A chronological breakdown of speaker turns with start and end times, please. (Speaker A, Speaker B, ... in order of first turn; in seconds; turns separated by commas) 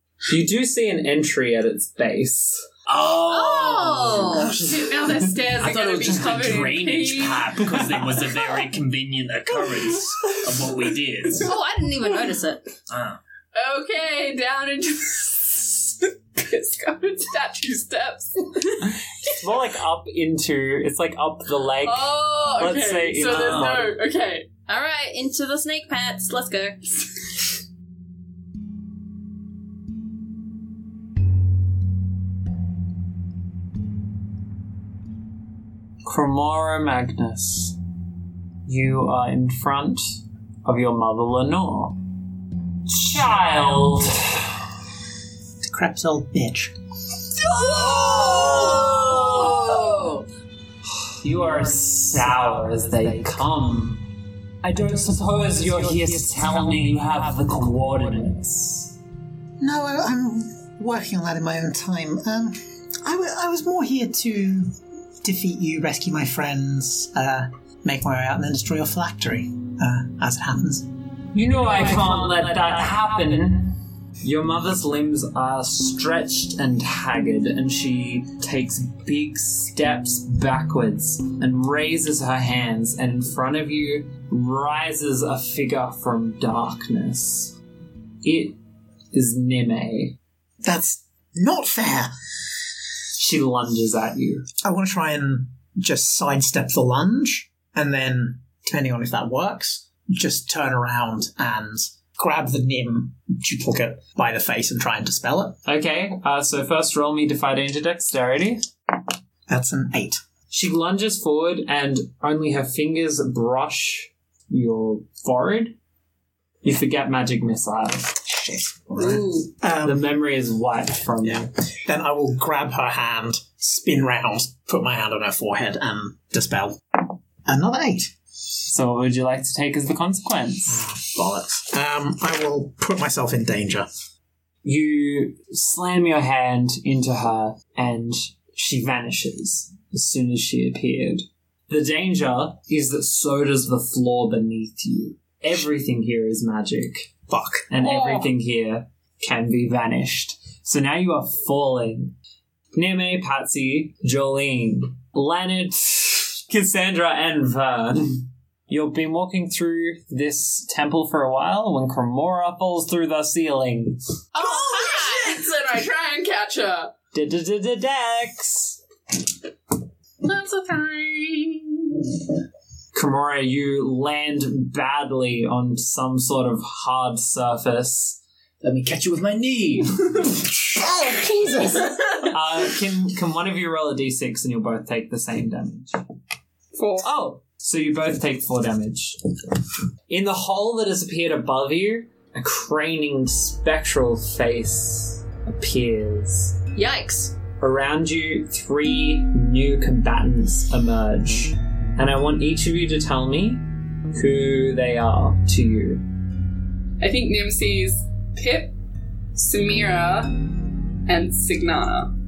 Speaker A: 0.3-2.6, Speaker B: 2.9-11.5, Speaker C: 3.3-4.5, Speaker D: 4.5-7.6, Speaker C: 11.4-12.7, Speaker B: 12.9-13.2, Speaker D: 13.5-18.9, Speaker A: 19.2-23.9, Speaker D: 21.8-24.5, Speaker C: 24.7-26.8, Speaker A: 36.0-37.8, Speaker A: 38.6-40.0, Speaker A: 40.6-42.0, Speaker A: 42.9-44.5, Speaker E: 45.6-46.7, Speaker A: 47.6-49.6, Speaker C: 47.6-50.2, Speaker D: 47.8-48.8, Speaker A: 51.2-54.0, Speaker A: 54.6-58.9, Speaker E: 59.6-70.9, Speaker A: 71.3-87.5, Speaker A: 88.2-88.6, Speaker A: 89.1-90.2, Speaker E: 90.6-92.1, Speaker A: 93.2-94.5, Speaker E: 94.6-105.6, Speaker A: 105.7-108.6, Speaker E: 109.5-110.2, Speaker A: 110.5-115.7, Speaker A: 116.6-118.2, Speaker E: 118.2-120.0, Speaker C: 119.0-119.5, Speaker A: 119.8-121.5, Speaker E: 121.2-128.1, Speaker A: 128.7-130.9, Speaker E: 130.7-133.9, Speaker A: 134.6-147.1, Speaker E: 147.3-147.7, Speaker A: 147.7-152.1, Speaker D: 147.9-148.2, Speaker A: 152.7-164.0, Speaker C: 164.3-165.4, Speaker D: 164.3-166.9, Speaker A: 167.1-168.8, Speaker D: 170.2-172.1, Speaker A: 172.9-178.2, Speaker B: 178.6-180.5, Speaker E: 180.7-182.0, Speaker A: 182.2-186.0, Speaker A: 187.0-189.2, Speaker A: 190.1-196.6, Speaker C: 196.7-197.3, Speaker A: 197.6-206.0, Speaker D: 207.0-208.7, Speaker D: 209.3-210.3, Speaker D: 211.1-212.1